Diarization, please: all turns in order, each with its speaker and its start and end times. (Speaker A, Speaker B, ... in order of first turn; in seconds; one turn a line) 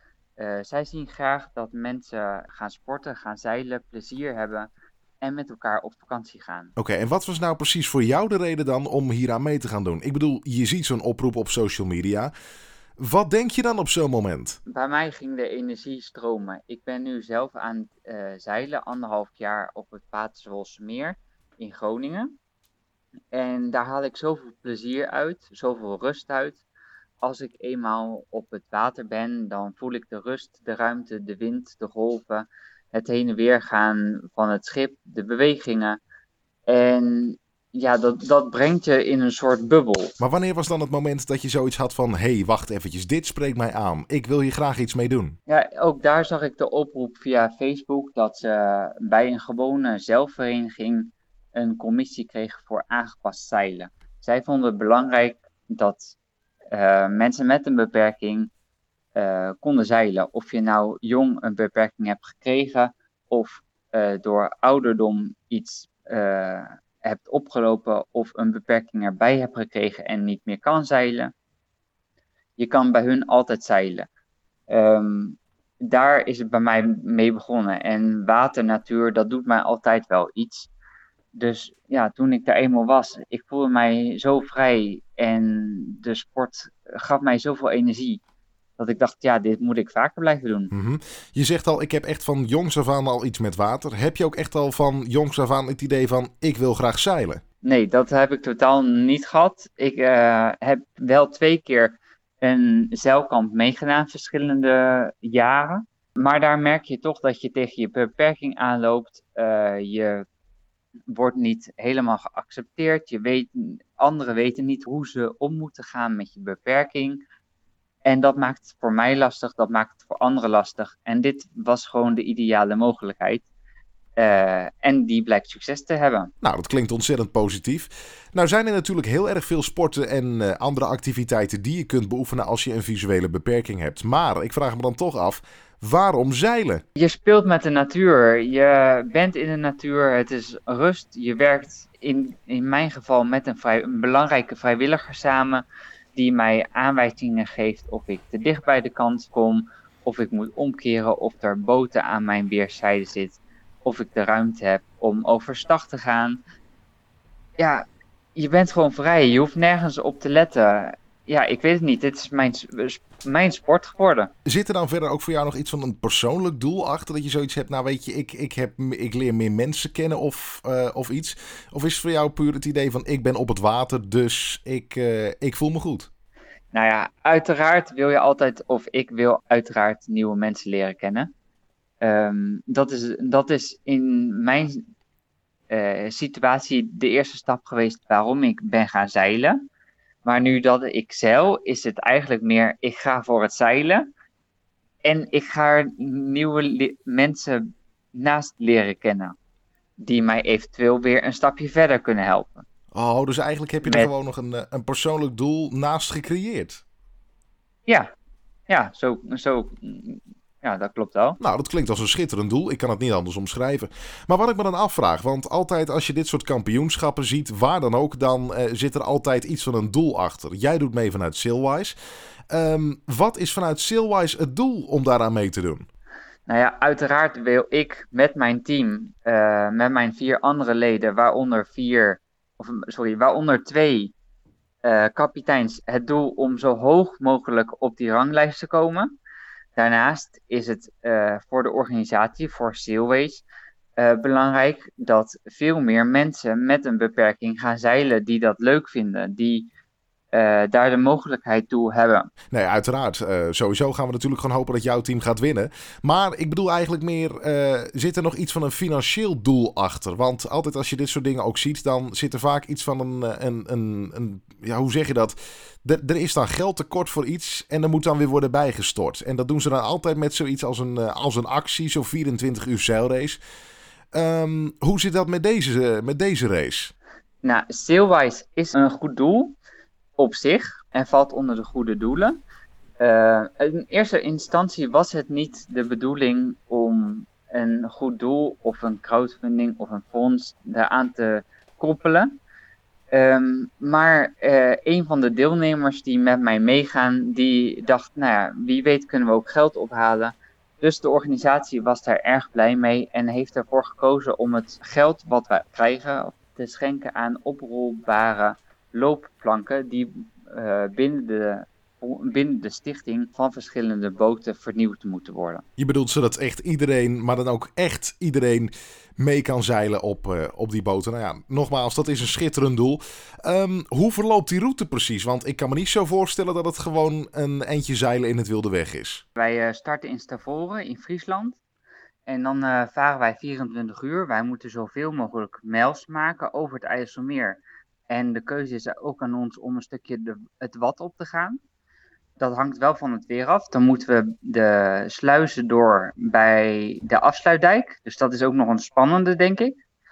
Speaker A: 0.4-6.7
Speaker B: 6.8-12.3
Speaker B: 13.0-14.6
Speaker A: 14.7-22.3
Speaker A: 23.3-26.6
Speaker A: 27.2-36.0
Speaker A: 36.6-40.2
Speaker B: 40.2-45.4
Speaker A: 45.5-56.1
Speaker A: 56.7-58.5
Speaker A: 59.1-71.3
Speaker A: 72.6-74.1
Speaker A: 74.7-80.7
Speaker A: 81.3-88.2
Speaker A: 88.8-90.7
Speaker B: 90.7-97.4
Speaker A: 97.6-110.2
Speaker A: 111.1-117.2
Speaker A: 118.0-123.5
Speaker A: 124.2-126.3
Speaker B: 126.4-136.8
Speaker A: 136.9-145.6
Speaker A: 146.1-156.4
Speaker A: 157.6-157.8
Speaker A: 158.3-164.3
Speaker B: 164.4-176.1
Speaker A: 176.7-181.3
Speaker A: 182.0-184.9
Speaker A: 185.7-189.6
Speaker A: 190.2-194.1
Speaker A: 195.0-197.6
Speaker A: 198.1-199.3
Speaker A: 200.0-202.6
Speaker B: 202.9-206.8
Speaker A: 203.8-204.1
Speaker A: 208.7-211.4
Speaker B: 211.4-221.9
Speaker B: 222.5-225.8
Speaker A: 226.5-234.1
Speaker A: 234.8-239.1
Speaker A: 239.8-243.4
Speaker A: 244.0-249.7
Speaker A: 250.3-252.3
Speaker B: 252.5-273.4
Speaker B: 274.1-276.9
Speaker A: 277.4-279.6
Speaker A: 280.2-282.4
Speaker A: 283.0-292.3
Speaker A: 293.1-315.6
Speaker B: 315.8-329.2
Speaker A: 329.4-331.6
Speaker A: 332.2-341.6
Speaker A: 342.4-349.8